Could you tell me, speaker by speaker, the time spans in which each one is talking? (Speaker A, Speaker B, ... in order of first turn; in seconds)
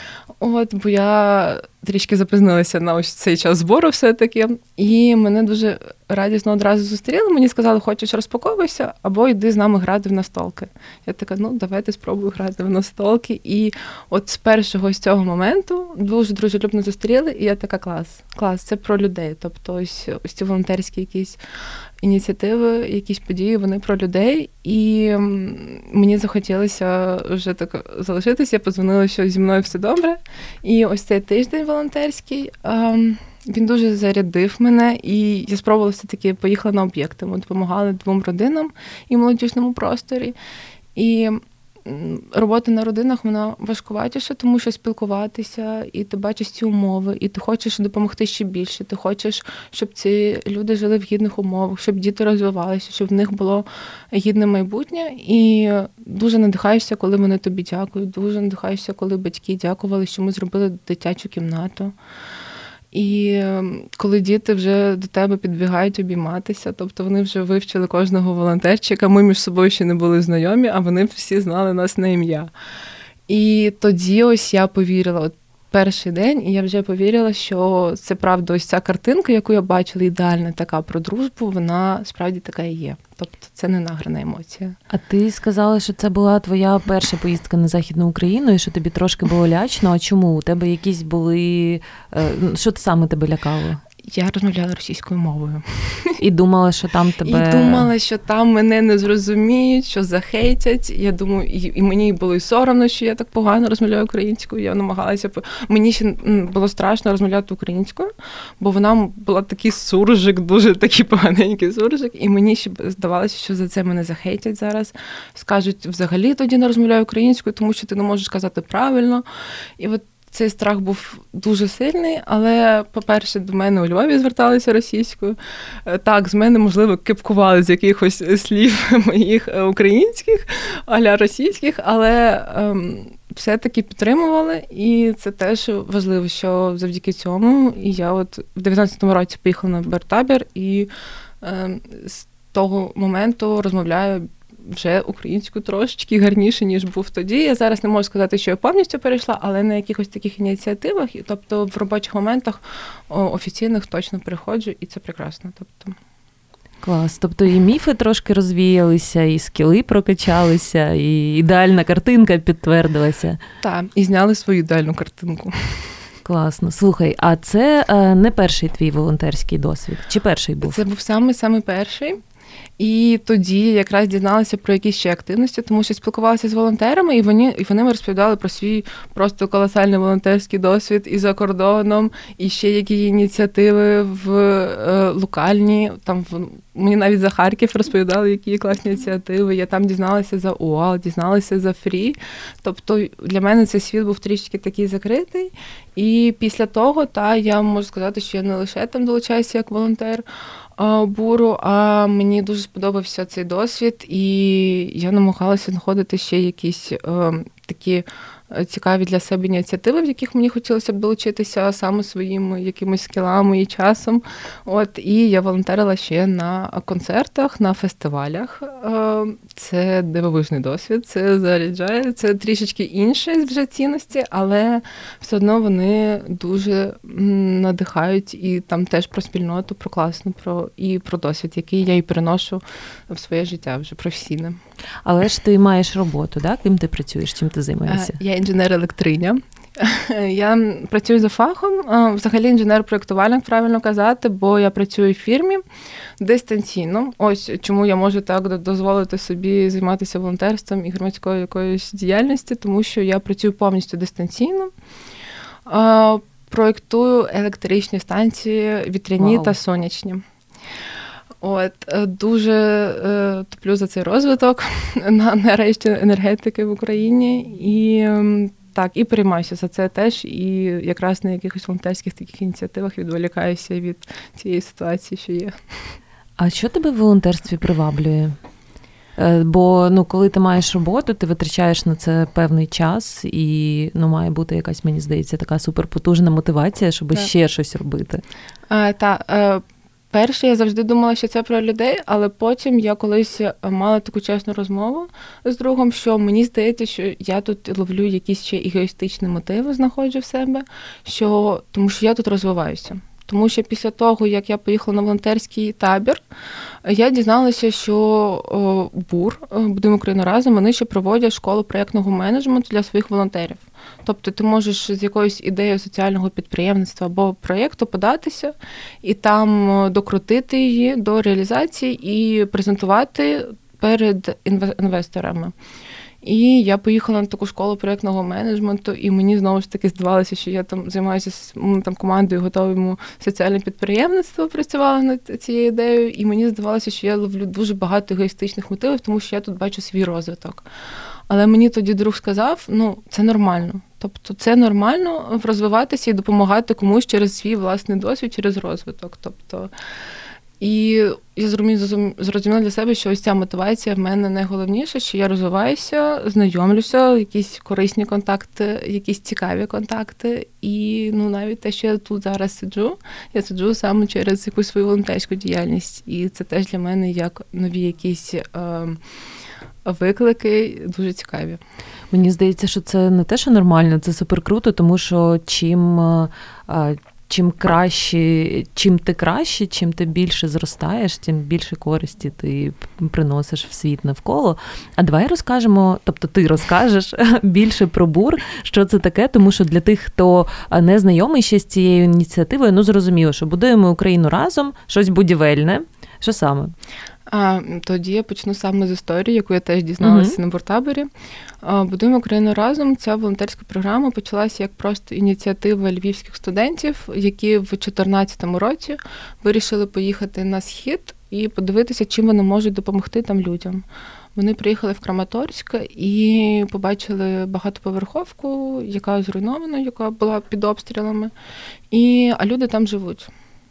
Speaker A: 0.4-21.4, 22.0-40.3, 40.9-61.9, 62.9-72.5, 73.3-84.7, 94.0-96.2, 97.2-119.2, 119.8-140.9, 141.4-156.0, 163.6-165.9, 170.6-172.2, 172.8-200.2, 200.8-234.6, 237.9-245.6, 246.2-254.7, 255.7-260.2, 261.4-275.5, 288.7-306.2, 306.8-325.5, 326.2-340.7, 341.3-349.7, 350.6-369.0, 369.8-371.6, 397.3-401.1, 401.6-421.3, 421.9-423.3
Speaker B: 84.9-93.8, 96.2-97.9, 156.8-163.4, 166.2-170.8, 235.0-238.2, 259.2-259.5, 276.4-278.4, 279.2-288.2, 372.1-396.7, 400.0-400.4